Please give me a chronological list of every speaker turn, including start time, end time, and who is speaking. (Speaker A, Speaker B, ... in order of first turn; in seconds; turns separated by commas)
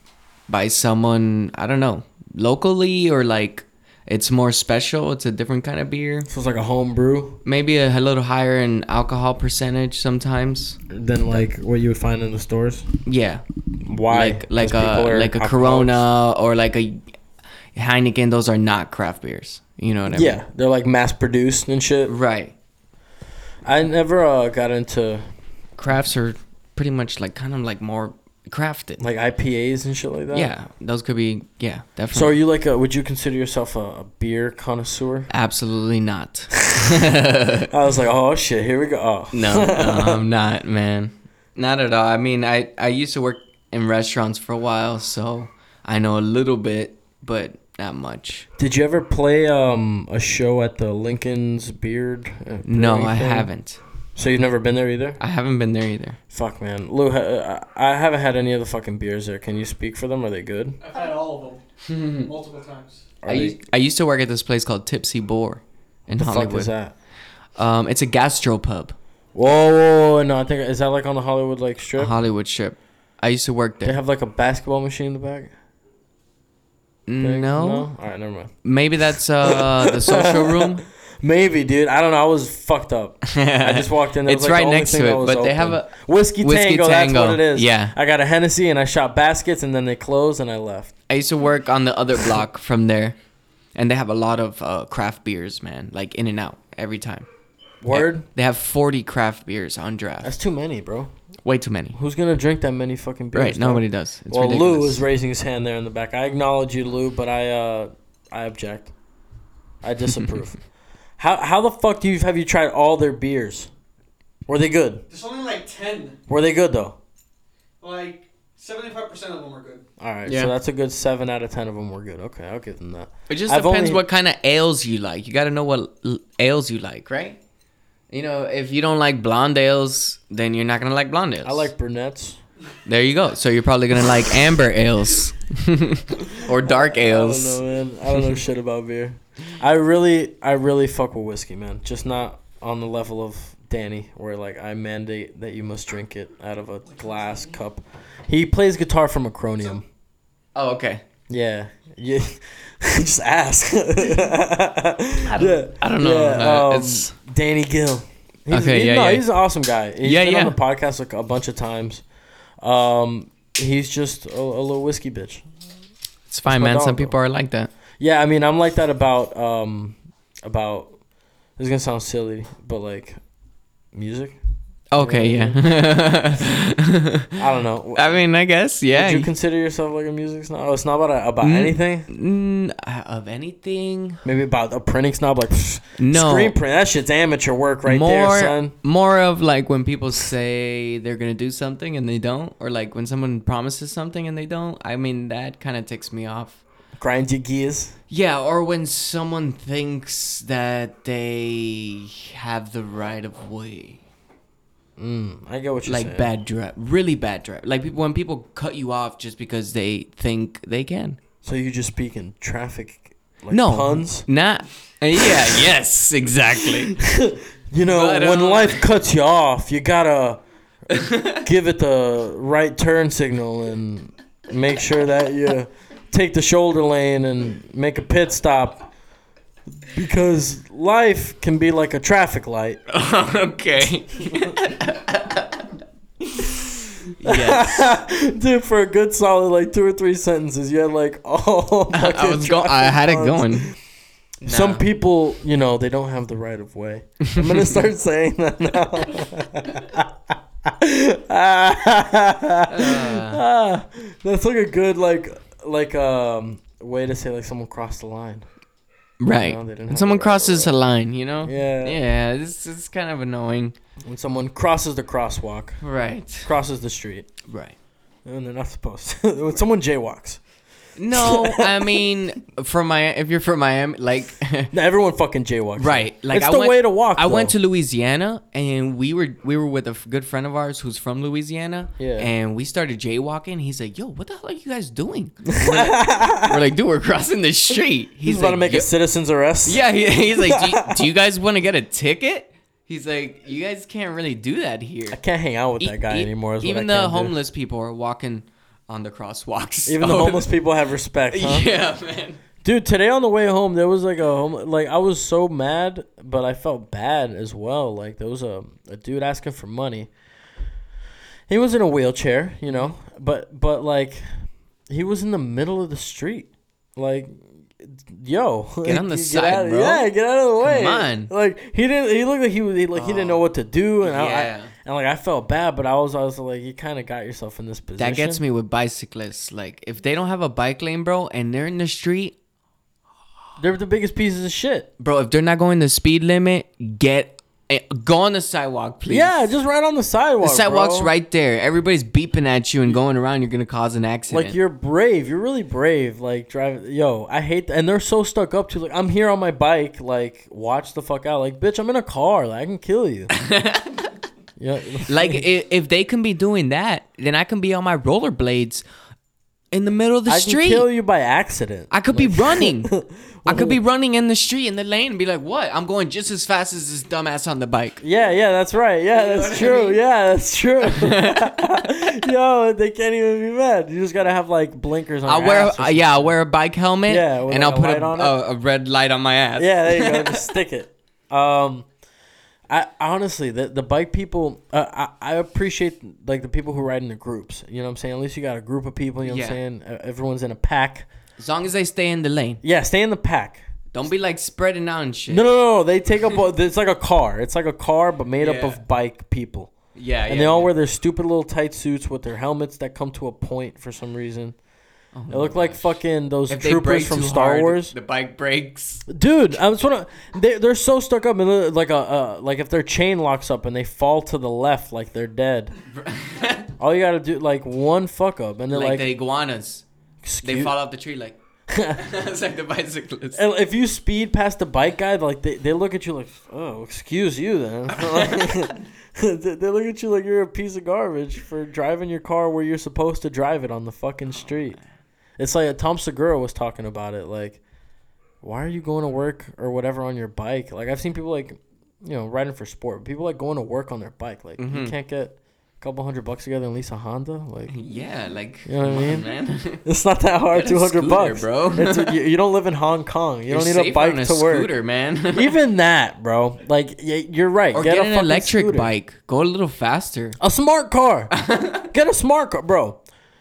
Speaker A: 0.5-6.3, Speaker B: 6.3-7.4, Speaker A: 7.5-11.5, Speaker B: 10.9-12.9, Speaker A: 13.1-13.4, Speaker B: 13.9-16.0, Speaker A: 14.1-17.0, Speaker A: 17.8-20.4, Speaker B: 20.1-22.1, Speaker A: 22.1-22.5, Speaker B: 23.6-25.3, Speaker A: 25.8-29.0, Speaker B: 29.0-30.5, Speaker A: 30.3-32.4, Speaker B: 32.1-35.3, Speaker A: 35.3-37.7, Speaker B: 37.7-40.2, Speaker A: 39.3-48.5, Speaker B: 48.6-53.5, Speaker A: 52.6-53.8, Speaker B: 54.2-55.2, Speaker A: 55.2-56.2, Speaker B: 56.3-60.8, Speaker C: 60.8-61.6, Speaker A: 61.9-62.3, Speaker C: 62.1-63.1, Speaker B: 63.2-63.6, Speaker A: 63.3-66.7, Speaker B: 66.1-66.9, Speaker A: 67.6-69.0, Speaker B: 69.3-72.1, Speaker A: 72.0-74.0, Speaker B: 73.8-75.5, Speaker A: 77.1-77.9, Speaker B: 77.2-78.5, Speaker A: 78.6-80.8, Speaker B: 79.4-91.0, Speaker A: 83.3-88.0, Speaker A: 91.1-93.2, Speaker A: 93.8-97.3, Speaker B: 97.8-98.3, Speaker A: 97.9-100.3, Speaker B: 100.2-101.1, Speaker A: 101.5-102.0, Speaker B: 101.9-108.9, Speaker A: 103.3-105.0, Speaker B: 109.8-110.6, Speaker B: 111.2-113.7, Speaker B: 114.5-115.0, Speaker C: 115.1-116.2, Speaker B: 116.3-117.0, Speaker C: 117.8-119.8, Speaker B: 120.0-124.0, Speaker A: 120.3-120.5, Speaker A: 123.3-127.4, Speaker A: 128.1-131.7, Speaker B: 131.4-132.4, Speaker A: 132.8-137.6, Speaker B: 136.4-149.8, Speaker A: 150.6-151.0, Speaker B: 151.3-162.0, Speaker A: 155.2-157.2, Speaker A: 158.5-159.3, Speaker A: 160.0-160.6, Speaker B: 162.6-165.4, Speaker A: 166.3-167.7, Speaker B: 166.5-167.2, Speaker B: 168.0-170.9, Speaker B: 171.6-173.2, Speaker B: 173.9-174.4, Speaker A: 174.9-177.4, Speaker B: 175.0-175.6, Speaker B: 177.4-178.2, Speaker A: 177.9-179.3, Speaker B: 178.9-182.1, Speaker A: 181.4-184.2, Speaker B: 184.2-188.7, Speaker A: 186.0-186.6, Speaker A: 187.9-196.6, Speaker B: 197.0-198.0, Speaker A: 198.1-204.0, Speaker B: 205.0-206.3, Speaker A: 205.8-211.2, Speaker B: 211.4-214.3, Speaker A: 213.5-217.0, Speaker B: 216.6-228.9, Speaker A: 217.8-218.8, Speaker A: 220.9-221.4, Speaker B: 229.9-232.8, Speaker A: 232.9-235.6, Speaker A: 237.2-237.9, Speaker B: 237.2-243.8, Speaker A: 241.9-243.7, Speaker A: 244.4-244.9, Speaker B: 244.4-258.5, Speaker A: 247.2-247.7, Speaker A: 252.7-253.4, Speaker A: 259.2-263.8, Speaker B: 259.4-260.7, Speaker B: 261.4-262.0, Speaker B: 264.1-265.8, Speaker A: 265.8-266.5, Speaker B: 266.4-267.3, Speaker A: 267.5-267.8, Speaker B: 268.2-270.4, Speaker A: 271.0-274.7, Speaker B: 271.1-272.1, Speaker B: 274.7-277.6, Speaker A: 275.8-288.9, Speaker B: 282.0-282.3, Speaker B: 285.5-286.6, Speaker B: 288.2-289.8, Speaker A: 289.6-295.2, Speaker B: 290.4-291.0, Speaker B: 295.1-297.3, Speaker A: 295.8-300.5, Speaker B: 299.9-301.7, Speaker A: 301.3-302.4, Speaker B: 302.6-310.1, Speaker B: 311.5-328.4, Speaker A: 312.7-312.9, Speaker A: 318.8-320.1, Speaker A: 320.6-321.3, Speaker A: 322.9-323.4, Speaker A: 324.0-324.7, Speaker A: 328.0-332.4, Speaker B: 333.6-334.9, Speaker A: 335.0-339.4, Speaker B: 339.1-341.1, Speaker A: 340.4-344.6, Speaker B: 344.3-353.3, Speaker A: 353.3-354.1, Speaker B: 354.6-355.4, Speaker A: 355.1-358.9, Speaker A: 359.7-360.9, Speaker B: 360.3-363.8, Speaker A: 361.9-362.9, Speaker A: 363.5-368.0, Speaker B: 368.0-376.3, Speaker A: 369.1-370.0, Speaker A: 370.8-371.7, Speaker A: 375.3-380.5, Speaker B: 377.1-378.4, Speaker B: 379.6-381.9, Speaker B: 382.7-391.1, Speaker A: 389.2-389.6, Speaker A: 391.4-392.6, Speaker B: 392.6-393.6, Speaker A: 393.9-395.4, Speaker B: 395.3-399.7, Speaker A: 398.4-398.8, Speaker A: 399.9-400.7, Speaker B: 400.3-404.6, Speaker A: 405.1-406.0, Speaker B: 405.3-407.9, Speaker A: 406.5-409.0, Speaker B: 409.1-415.7, Speaker A: 415.9-416.7, Speaker B: 416.8-419.1, Speaker A: 418.7-419.8, Speaker B: 420.2-420.7, Speaker A: 420.4-421.4, Speaker B: 421.7-422.0, Speaker A: 421.9-423.4, Speaker B: 423.3-434.8, Speaker A: 427.9-428.8, Speaker A: 434.4-434.8, Speaker B: 435.4-437.6, Speaker B: 438.4-447.8, Speaker A: 444.6-444.9, Speaker A: 447.7-449.8, Speaker B: 448.6-449.3, Speaker B: 449.8-454.7, Speaker A: 450.5-452.1, Speaker A: 453.5-455.6, Speaker B: 455.3-458.9, Speaker A: 457.7-460.4, Speaker B: 460.4-461.3, Speaker A: 461.3-461.9, Speaker B: 461.9-463.0